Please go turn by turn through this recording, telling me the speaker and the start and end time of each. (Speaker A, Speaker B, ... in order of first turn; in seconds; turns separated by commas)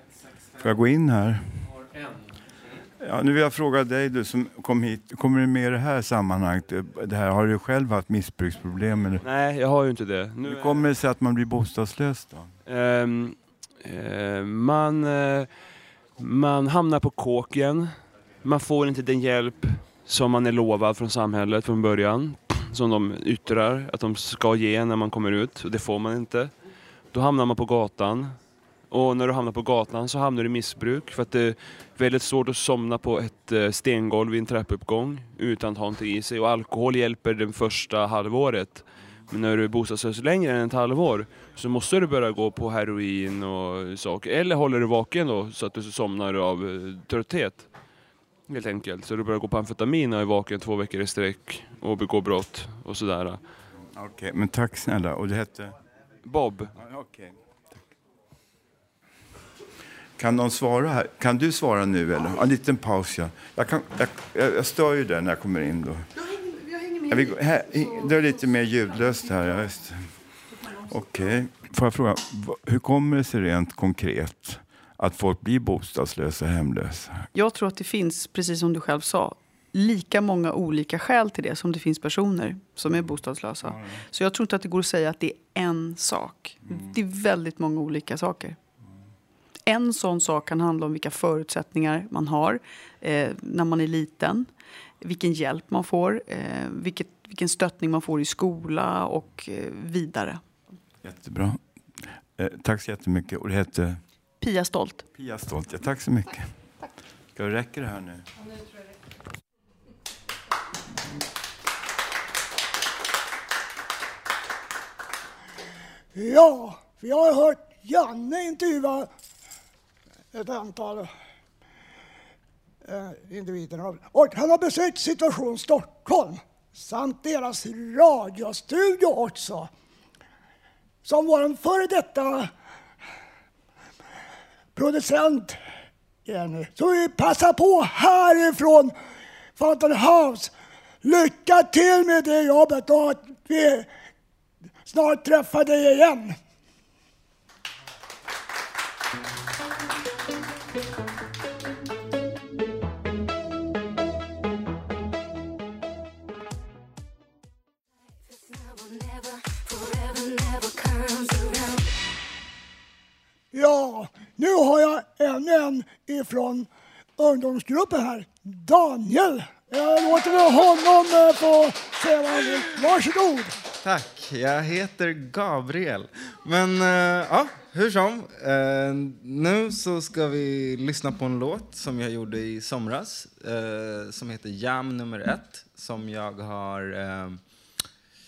Speaker A: 0.6-1.7, Speaker A: 3.0-9.2, Speaker B: 9.2-10.8, Speaker A: 10.4-12.6, Speaker B: 12.7-15.6, Speaker B: 16.2-26.5, Speaker B: 27.1-28.4, Speaker B: 28.9-47.7, Speaker B: 48.5-53.4, Speaker A: 53.9-55.8, Speaker B: 56.2-56.7, Speaker A: 56.8-57.4, Speaker A: 60.2-66.2, Speaker A: 67.0-70.2, Speaker A: 70.8-77.3, Speaker C: 77.3-88.6, Speaker A: 83.7-84.0, Speaker A: 86.6-86.9, Speaker C: 89.7-100.5, Speaker A: 101.0-104.1, Speaker C: 104.4-105.0, Speaker A: 105.1-106.7, Speaker A: 107.3-108.3, Speaker D: 116.2-119.1, Speaker D: 120.3-121.1, Speaker D: 122.9-129.7, Speaker D: 131.1-132.5, Speaker D: 134.8-135.6, Speaker D: 136.3-138.9, Speaker D: 139.6-140.5, Speaker D: 141.0-143.9, Speaker D: 144.8-146.4, Speaker D: 163.5-173.5, Speaker E: 173.8-187.4